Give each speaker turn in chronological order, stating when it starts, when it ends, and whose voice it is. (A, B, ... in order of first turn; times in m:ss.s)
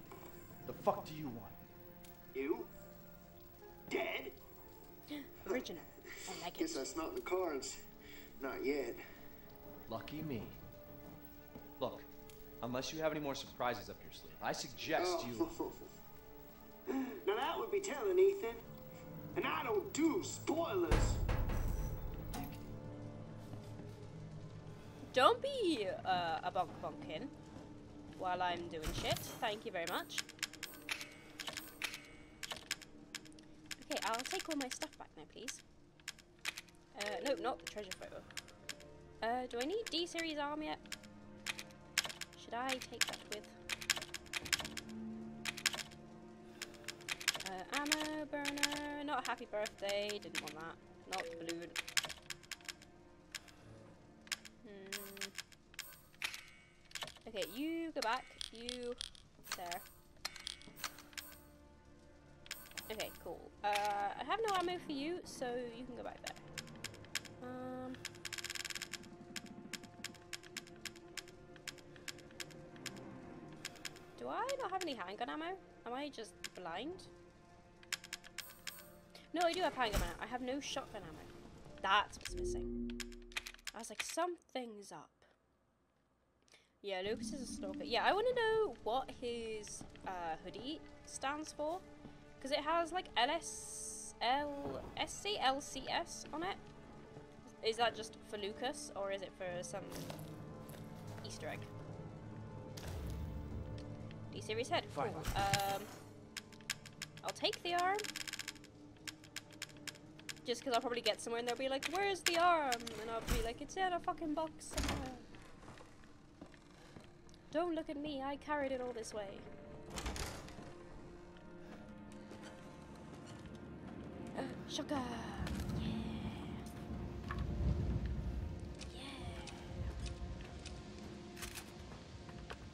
0:00.6-0:01.6 A
0:02.3-0:02.7 B
0:03.9-0:04.4 B
0:05.1-0:07.0 C
0:06.3-0:07.8 B
0:08.4-0:09.0 B
0:09.9-0:10.6 A
0:11.8-0:12.1 A
0:12.6-0:15.5 A
0:15.0-0:16.0 B
0:16.9-0:18.7 B
0:19.3-0:21.2 B
0:25.1-0:27.3 C
0:28.2-0:30.2 C
0:33.8-0:35.6 C
0:36.9-0:38.3 C
0:39.2-0:40.8 C
0:42.4-0:43.6 C
0:47.4-0:51.8 C
0:54.6-0:55.3 C
0:57.2-0:59.8 C
1:02.9-1:06.4 C
1:07.4-1:08.0 C
1:14.2-1:17.1 C
1:19.3-1:22.7 C
1:23.7-1:25.3 C
1:26.8-1:31.8 C
1:32.4-1:36.6 C
1:37.5-1:40.1 C
1:41.2-1:41.7 C
1:44.3-1:45.9 C
1:44.9-1:45.3 A
1:47.2-1:48.1 C
1:50.4-1:55.3 C
1:57.5-1:59.5 C
2:04.4-2:06.6 C
2:08.9-2:09.8 C